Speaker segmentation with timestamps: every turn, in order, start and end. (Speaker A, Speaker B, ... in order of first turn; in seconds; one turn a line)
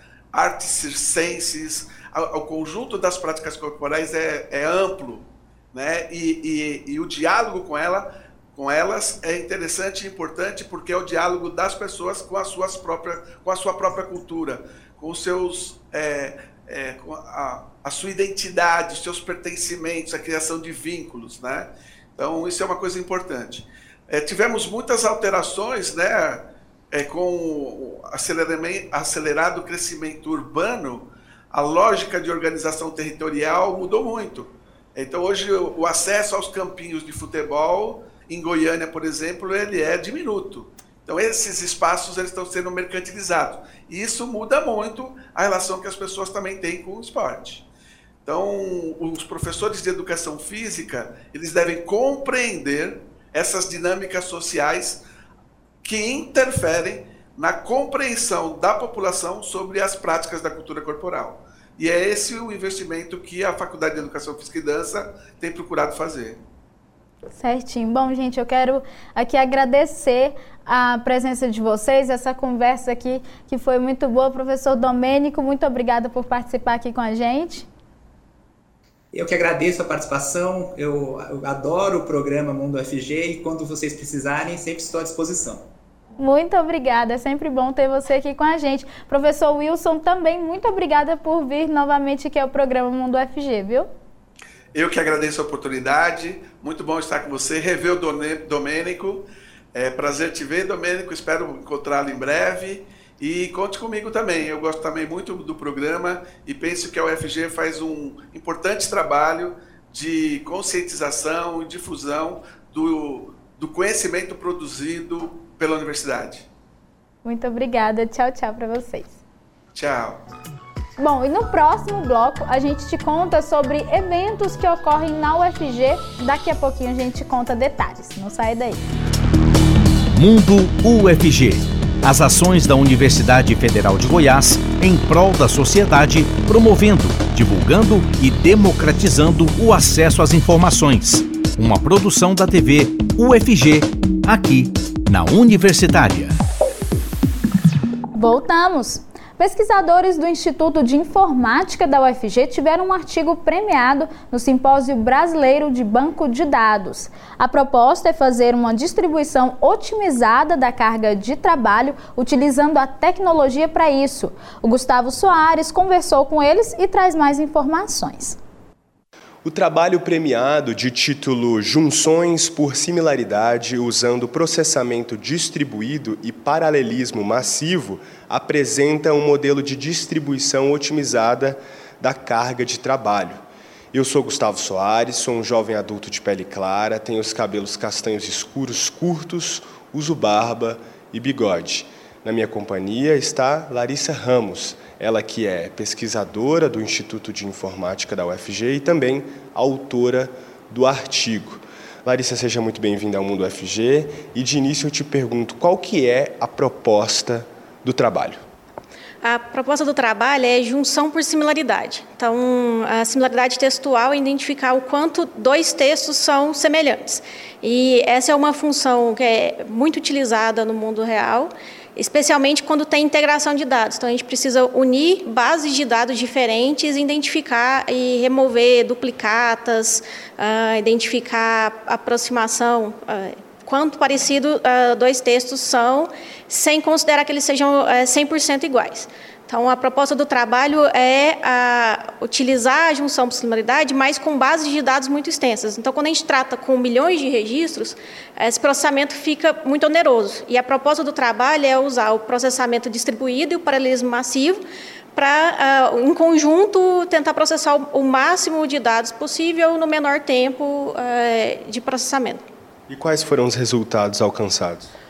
Speaker A: 0.3-47.6
Speaker A: 48.2-55.0
Speaker A: 55.8-66.4
Speaker B: 67.3-77.7
Speaker C: 79.1-85.7
Speaker B: 86.2-93.9
Speaker A: 94.7-116.5
Speaker B: 117.2-119.2
Speaker A: 119.7-120.2
Speaker B: 121.0-128.8
Speaker D: 130.1-146.3
Speaker B: 148.1-168.4
Speaker E: 169.4-183.4
Speaker E: 183.9-208.4
Speaker F: 209.2-254.6
Speaker F: 255.2-262.4
Speaker E: 262.9-264.9